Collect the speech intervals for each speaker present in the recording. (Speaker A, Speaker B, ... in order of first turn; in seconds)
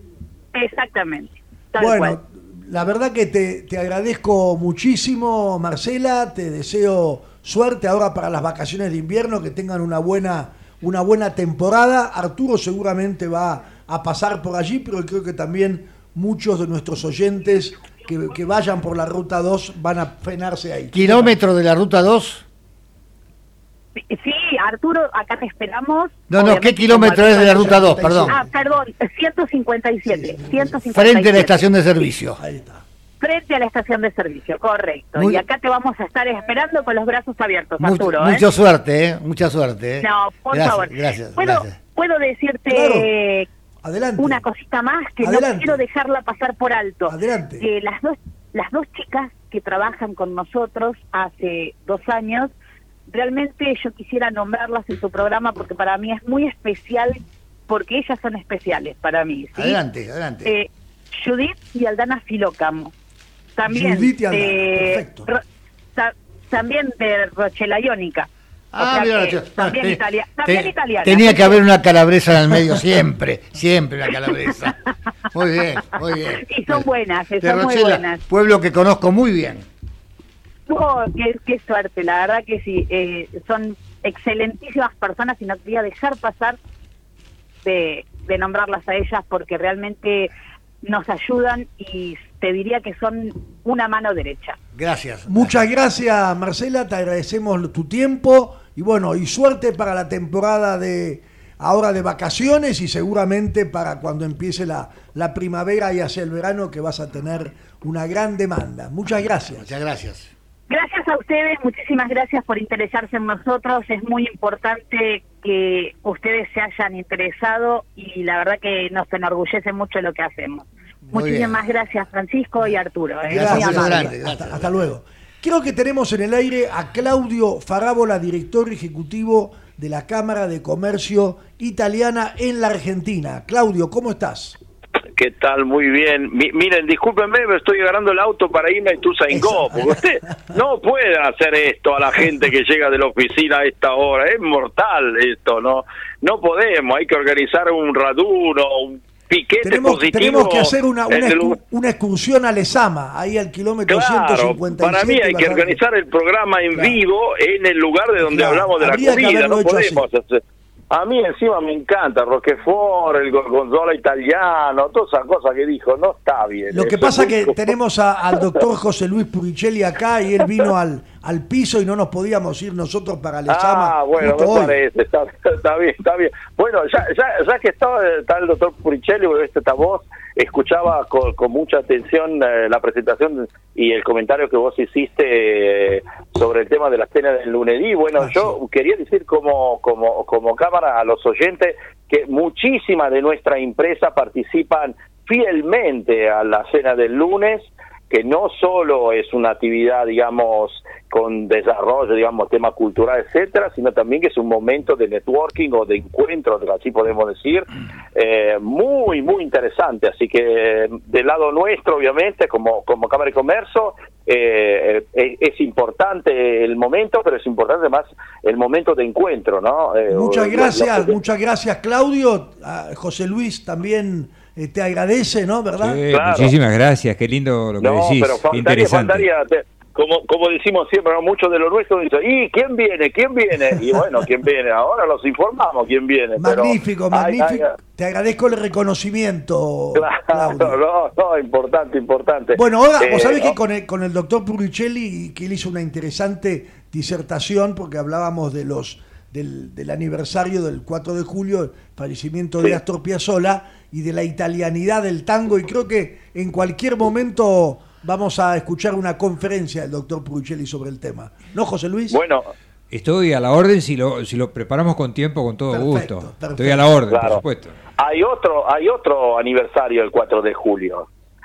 Speaker A: 0.5-2.1, 24.0-31.6, 33.2-38.4, 40.0-43.5, 44.2-52.5, 53.1-59.8, 60.4-62.9, 63.6-65.4, 66.0-71.6, 76.4-78.2, 80.7-86.6, 87.6-90.3, 90.8-94.6, 110.7-124.1
Speaker B: 1.8-21.4, 27.4-28.6, 30.1-30.9, 32.4-32.8, 42.7-43.1, 43.8-44.4, 45.2-45.8, 47.1-47.6, 63.6-65.3, 95.3-109.7, 123.3-134.6, 139.3-140.6, 149.6-155.8, 156.7-157.0, 158.2-160.1, 166.7-174.8, 188.2-188.6, 220.1-226.0, 236.4-240.8, 242.6-262.2, 265.7-267.0
Speaker C: 20.9-22.4, 26.3-28.4, 30.9-32.4, 35.1-35.4, 37.8-41.8, 59.5-60.5, 68.7-74.8, 75.3-76.9, 77.4-79.6, 94.7-95.5, 109.5-110.3, 121.1-121.6, 123.3-124.9
Speaker D: 135.2-151.6, 153.9-167.7, 173.5-221.1, 226.1-226.5, 227.8-237.7, 239.9-243.6, 262.1-262.5, 267.1-267.4, 267.9-271.1
Speaker E: 225.8-229.3, 262.9-267.8